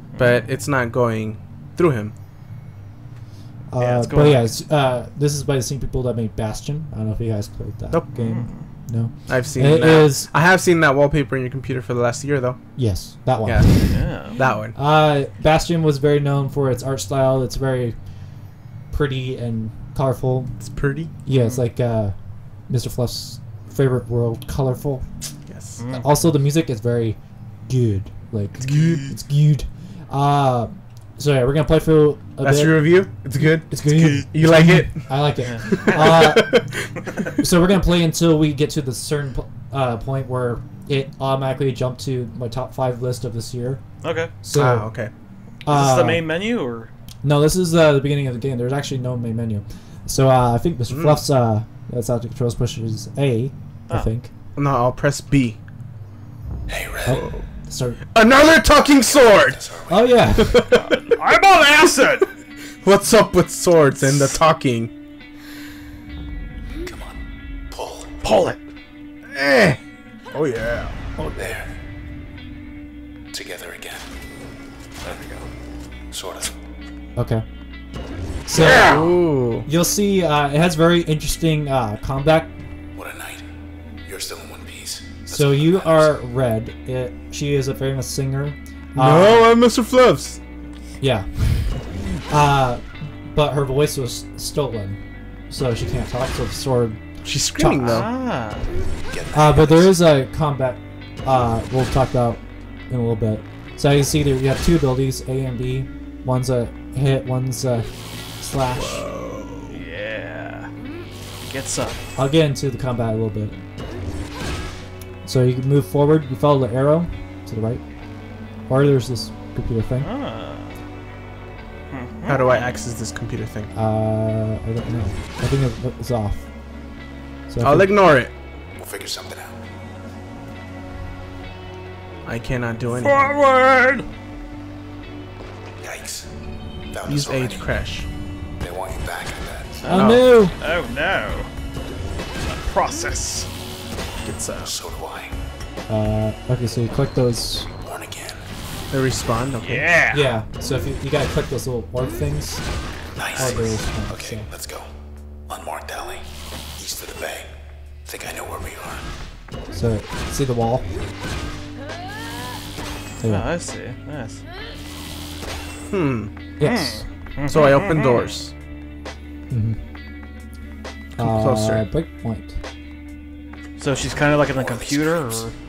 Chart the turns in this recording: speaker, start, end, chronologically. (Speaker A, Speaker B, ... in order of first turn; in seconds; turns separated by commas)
Speaker A: 0.1-0.4, Speaker B: 0.2-2.1, Speaker C: 3.7-10.3, Speaker A: 3.8-4.5, Speaker A: 8.2-8.7, Speaker B: 9.3-12.6, Speaker C: 12.8-14.0, Speaker B: 13.4-14.8, Speaker A: 13.9-14.4, Speaker C: 14.7-18.0, Speaker C: 18.9-20.6, Speaker B: 20.6-21.1, Speaker C: 21.2-22.1, Speaker A: 21.3-21.6, Speaker C: 22.7-25.1, Speaker B: 25.5-25.8, Speaker A: 25.8-26.1, Speaker C: 25.9-36.9, Speaker B: 28.6-29.1, Speaker B: 32.4-37.1, Speaker A: 33.8-34.2, Speaker A: 35.4-36.5, Speaker C: 37.4-43.8, Speaker A: 44.0-44.3, Speaker C: 44.4-45.0, Speaker B: 44.5-45.1, Speaker C: 45.6-46.3, Speaker A: 45.7-46.9, Speaker C: 47.2-54.3, Speaker B: 50.9-51.2, Speaker B: 54.6-55.6, Speaker D: 56.7-57.2, Speaker C: 57.0-58.0, Speaker B: 57.1-57.5, Speaker B: 58.1-59.6, Speaker D: 58.7-60.3, Speaker C: 59.9-60.7, Speaker B: 60.4-61.1, Speaker A: 61.1-62.3, Speaker B: 62.8-64.9, Speaker D: 66.8-68.2, Speaker A: 68.2-68.6, Speaker B: 69.3-69.8, Speaker B: 70.3-71.4, Speaker D: 71.4-71.8, Speaker D: 73.3-74.1, Speaker A: 75.0-75.5, Speaker D: 76.1-76.5, Speaker C: 77.2-77.4, Speaker C: 78.5-79.1, Speaker B: 78.6-79.7, Speaker A: 78.6-79.0, Speaker C: 79.6-82.5, Speaker D: 83.0-83.5, Speaker D: 84.0-86.1, Speaker C: 85.3-89.5, Speaker B: 89.0-90.4, Speaker C: 91.0-95.0, Speaker C: 95.5-98.1, Speaker B: 97.2-98.1, Speaker A: 97.8-98.7, Speaker D: 99.1-100.0, Speaker C: 99.3-109.1, Speaker B: 108.7-109.8, Speaker A: 109.7-110.7, Speaker A: 111.5-112.0, Speaker C: 112.2-113.6, Speaker C: 115.2-117.8, Speaker C: 118.7-120.1, Speaker A: 120.0-120.8, Speaker A: 121.9-122.7, Speaker B: 122.2-123.7, Speaker C: 123.7-126.5, Speaker C: 127.5-127.9, Speaker B: 127.6-128.3, Speaker D: 128.8-129.6, Speaker B: 132.2-133.3, Speaker A: 132.9-134.1, Speaker D: 135.8-136.3, Speaker D: 136.9-137.7, Speaker B: 137.1-138.1, Speaker D: 138.6-139.9, Speaker A: 139.8-141.5, Speaker C: 139.9-140.6, Speaker B: 139.9-140.3, Speaker A: 142.5-143.5, Speaker B: 144.2-144.8, Speaker D: 144.6-145.4, Speaker C: 145.9-147.7, Speaker D: 147.8-148.4, Speaker B: 148.9-149.9, Speaker A: 149.6-150.3, Speaker C: 150.1-152.6, Speaker D: 153.2-154.9, Speaker A: 153.3-153.7, Speaker C: 153.4-154.5, Speaker D: 155.5-157.5, Speaker D: 158.1-159.1, Speaker C: 159.7-160.9, Speaker C: 163.2-163.5, Speaker A: 163.2-164.4, Speaker B: 165.9-166.3, Speaker C: 166.6-167.1, Speaker A: 166.6-168.3, Speaker B: 167.5-168.5, Speaker C: 169.5-169.8, Speaker C: 171.2-172.6, Speaker B: 171.2-171.8, Speaker A: 173.8-175.5, Speaker D: 174.1-175.5